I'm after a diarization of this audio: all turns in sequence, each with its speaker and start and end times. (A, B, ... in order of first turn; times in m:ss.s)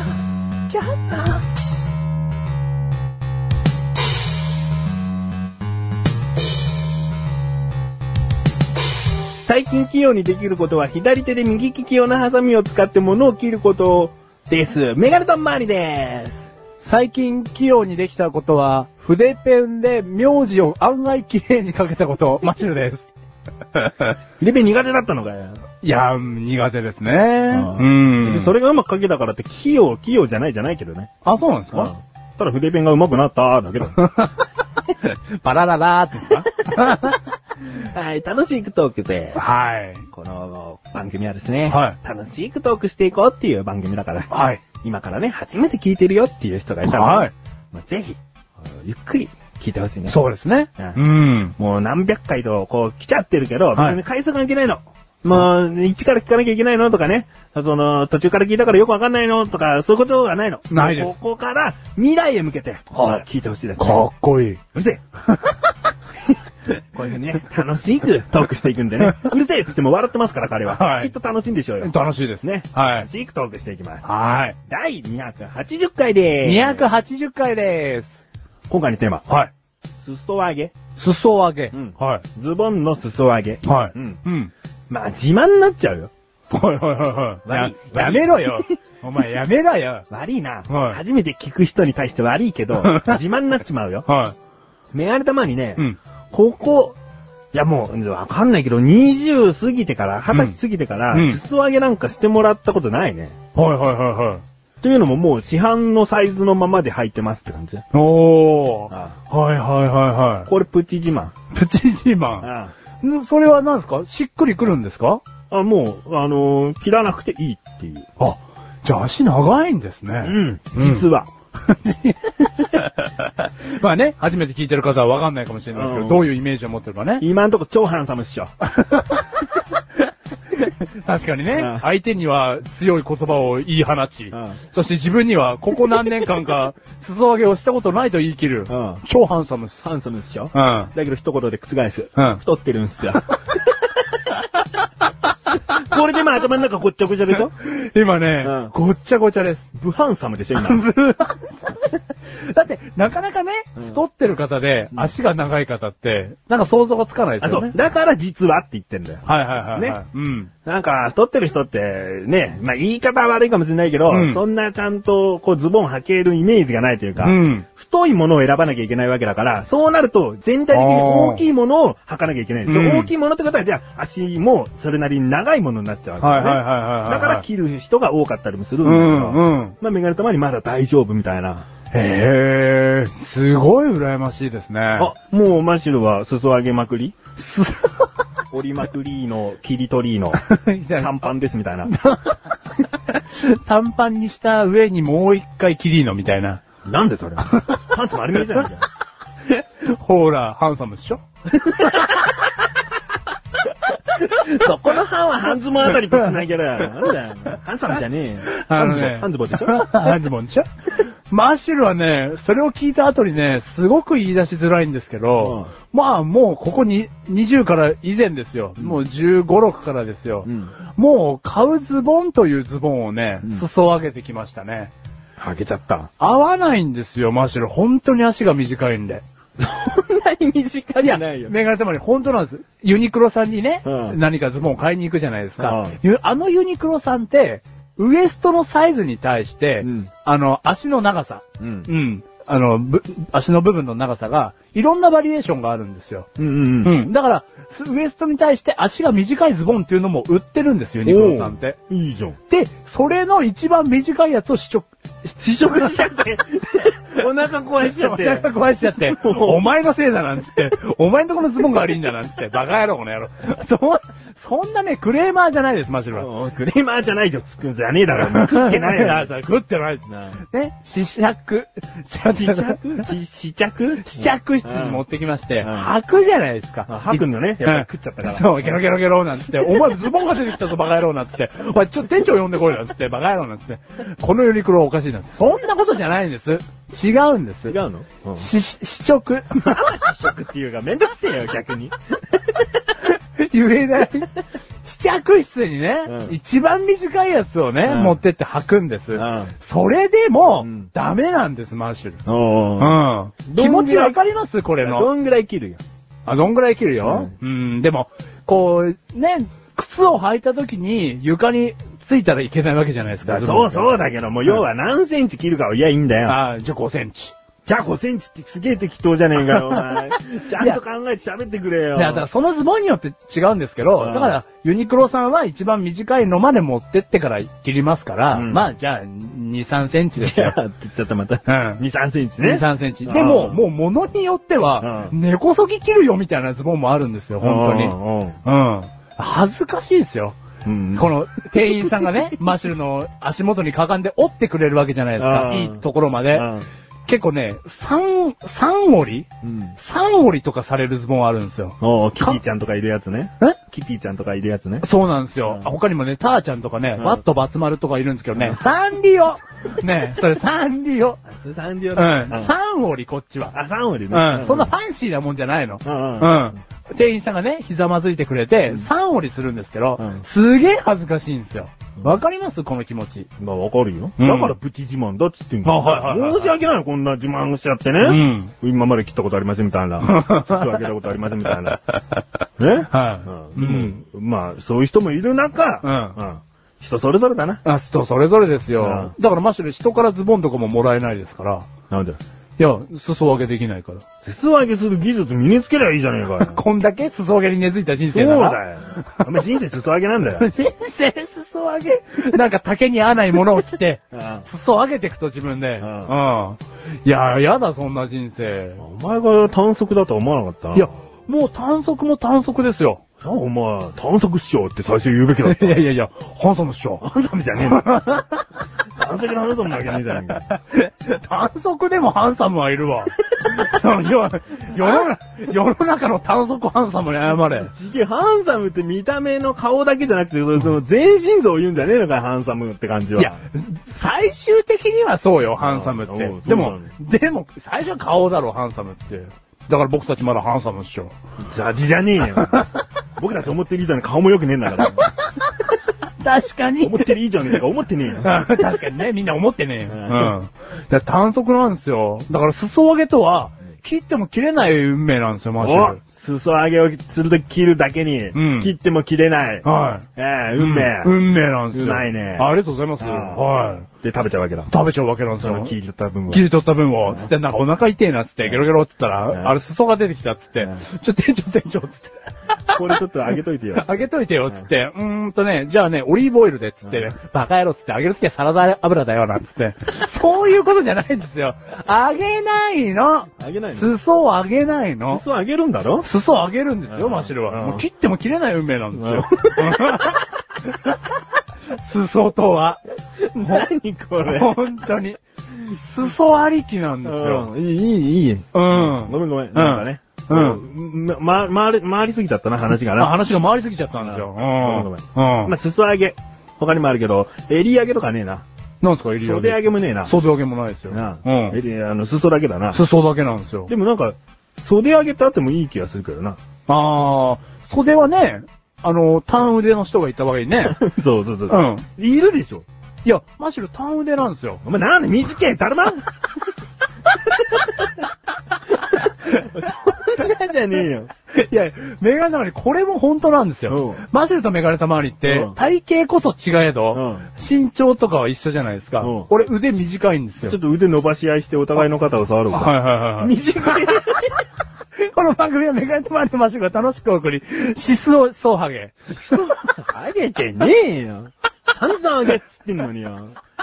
0:00.7-0:01.4 A
0:09.4-0:16.5 B
0:16.8-0:23.1 A
0:23.7-0:24.1 A
0:24.4-0:25.6 B
0:25.8-0:28.5 A
0:27.5-0:31.1 B
0:31.2-0:31.9 A
0:31.7-0:34.0 B
0:33.9-0:34.5 A
0:35.0-0:37.2 A
0:36.7-0:37.2 B
0:37.7-0:39.4 B
0:39.3-0:40.1 A
0:40.1-0:44.3 B
0:41.7-0:42.0 A
0:44.3-0:44.6 A
0:44.8-0:50.2 B
0:46.8-0:47.3 A
0:50.1-0:51.5 A
0:51.6-1:04.1 B
1:00.7-1:01.2 A
1:03.8-1:04.6 A
1:04.7-1:05.0 B
1:06.9-1:14.0 B
1:10.7-1:11.1 A
1:11.8-1:13.1 A
1:14.0-1:14.6 A
1:14.7-1:16.9 B
1:16.4-1:18.2 A
1:18.7-1:19.2 B
1:20.0-1:20.7 B
1:21.0-1:22.2 A
1:21.7-1:24.2 B
1:23.6-1:24.5 A
1:24.9-1:26.1 B
1:26.5-1:30.0 A
1:27.4-1:28.7 B
1:30.1-1:34.1 B
1:30.7-1:31.0 A
1:32.8-1:33.2 A
1:34.1-1:34.4 A
1:34.9-1:37.0 B
1:37.5-1:43.4 B
1:41.1-1:41.4 A
1:43.5-1:44.4 A
1:44.8-1:47.8 B
1:47.9-1:50.5 A
1:48.9-1:49.2 B
1:50.5-1:51.3 B
1:51.5-1:52.5 A
1:52.4-1:52.7 B
1:53.0-1:55.2 A
1:55.5-1:58.1 B
1:58.2-2:01.1 A
2:00.2-2:01.3 B
2:01.6-2:07.2 A
2:05.7-2:06.3 B
2:07.2-2:08.5 B
2:08.6-2:19.9 A
2:11.5-2:11.8 B
2:14.3-2:14.6 B
2:18.7-2:19.0 B
2:19.8-2:23.4 B
2:20.5-2:20.9 A
2:25.7-2:27.5 B
2:27.6-2:29.7 A
2:28.4-2:28.7 B
2:29.7-2:30.8 B
2:30.6-2:37.7 A
2:37.4-2:40.0 B
2:39.2-2:40.5 A
2:40.6-3:01.7 B
2:44.1-2:44.4 A
2:47.2-2:47.6 A
2:50.7-2:51.4 A
2:52.6-2:53.1 A
2:56.2-2:57.4 A
2:58.8-2:59.7 A
3:01.9-3:05.1 A
3:05.0-3:07.2 B
3:07.4-3:08.1 A
3:08.5-3:10.4 B
3:10.4-3:11.3 A
3:10.9-3:11.9 B
3:11.8-3:12.4 A
3:13.1-3:16.6 A
3:16.8-3:18.9 B
3:17.5-3:17.8 A
3:19.5-3:21.2 A
3:21.7-3:22.3 B
3:24.0-3:30.1 B
3:28.5-3:44.9 A
3:35.4-3:35.7 B
3:40.4-3:40.7 B
3:45.4-3:46.1 B
3:46.2-3:49.2 A
3:49.6-3:51.5 B
3:51.0-4:06.3 A
3:53.8-3:54.2 B
3:55.6-3:56.0 B
3:59.8-4:00.1 B
4:01.6-4:01.9 B
4:06.4-4:07.0 B
4:06.8-4:11.8 A
4:11.0-4:12.4 B
4:12.5-4:16.1 A
4:15.4-4:19.7 B
4:17.9-4:26.3 A
4:26.1-4:29.3 B
4:28.2-4:33.1 A
4:30.1-4:30.4 B
4:32.3-4:35.0 B
4:34.0-4:47.8 A
4:35.6-4:35.9 B
4:36.9-4:38.8 B
4:47.7-4:48.5 B
4:48.4-4:49.8 A
4:49.6-4:51.9 B
4:53.1-5:02.2 A
4:56.0-4:56.4 B
4:57.8-4:58.2 B
4:59.1-4:59.5 B
5:00.6-5:00.9 B
5:02.2-5:03.0 B
5:02.8-5:05.1 A
5:03.5-5:04.2 B
5:04.8-5:05.8 B
5:06.2-5:14.6 A
5:07.0-5:07.3 B
5:13.2-5:16.4 B
5:16.2-5:17.3 A
5:17.6-5:22.2 B
5:19.6-5:20.0 A
5:21.9-5:30.6 A
5:24.0-5:24.4 B
5:28.3-5:28.6 B
5:30.2-5:33.6 B
5:31.4-5:31.8 A
5:32.4-5:40.4 A
5:34.8-5:35.1 B
5:37.4-5:38.4 B
5:40.6-5:41.1 B
5:41.0-5:46.5 A
5:45.2-5:46.7 B
5:47.1-5:49.3 A
5:49.4-5:49.8 B
5:49.8-5:52.4 A
5:51.8-5:54.8 B
5:54.8-6:01.2 A
5:55.4-5:55.7 B
5:58.3-5:58.6 B
6:01.2-6:02.5 B
6:01.9-6:03.5 A
6:03.5-6:04.7 B
6:04.1-6:13.3 A
6:05.8-6:06.5 B
6:10.0-6:10.2 B
6:13.4-6:21.8 B
6:14.2-6:14.5 A
6:15.6-6:16.6 A
6:18.0-6:18.5 A
6:20.0-6:20.8 A
6:21.7-6:22.2 A
6:22.6-6:27.6 B
6:22.9-6:24.0 A
6:25.8-6:26.2 A
6:27.6-6:31.7 A
6:28.8-6:29.1 B
6:31.9-6:32.2 B
6:32.6-6:34.0 A
6:34.2-6:36.6 B
6:36.4-6:38.6 A
6:38.1-6:40.5 B
6:40.4-6:48.8 A
6:44.1-6:44.5 B
6:45.8-6:46.2 B
6:48.8-6:50.9 B
6:50.7-6:53.0 A
6:53.2-6:55.8 B
6:55.4-6:58.4 A
6:57.0-6:58.0 B
6:59.0-7:00.4 B
6:59.8-7:07.7 A
7:07.4-7:13.4 B
7:13.2-7:21.1 A
7:15.6-7:16.9 B
7:21.4-7:25.1 B
7:24.8-7:25.3 A
7:26.2-7:27.1 A
7:26.8-7:28.4 B
7:28.2-7:36.0 A
7:29.9-7:30.4 B
7:35.6-7:41.2 B
7:38.3-7:38.7 A
7:39.6-7:40.0 A
7:40.6-7:43.9 A
7:41.7-7:44.7 B
7:44.7-7:45.7 A
7:45.4-7:46.4 B
7:46.3-7:52.8 A
7:52.7-7:54.7 B
7:53.7-8:05.2 A
7:56.8-7:57.1 B
8:03.4-8:03.9 B
8:05.1-8:06.1 B
8:06.0-8:11.0 A
8:06.9-8:07.8 B
8:08.9-8:10.2 B
8:11.7-8:12.8 A
8:13.2-8:14.7 B
8:14.3-8:17.5 A
8:17.0-8:23.1 B
8:18.5-8:20.6 A
8:23.0-8:25.5 A
8:23.9-8:28.4 B
8:28.8-8:31.6 A
8:29.2-8:30.2 B
8:30.9-8:32.8 B
8:32.7-8:33.7 A
8:33.7-8:36.4 B
8:36.7-8:40.8 A
8:40.6-8:42.6 B
8:41.5-8:41.8 A
8:43.0-8:44.6 A
8:44.6-8:46.1 B
8:47.4-8:47.7 B
8:49.2-8:51.1 B
8:51.3-9:00.6 A
8:53.7-8:54.0 B
8:55.3-8:55.5 B
8:56.9-8:57.3 B
8:59.0-8:59.3 B
9:00.4-9:04.3 B
9:02.5-9:03.9 A
9:05.0-9:09.2 A
9:09.1-9:13.4 B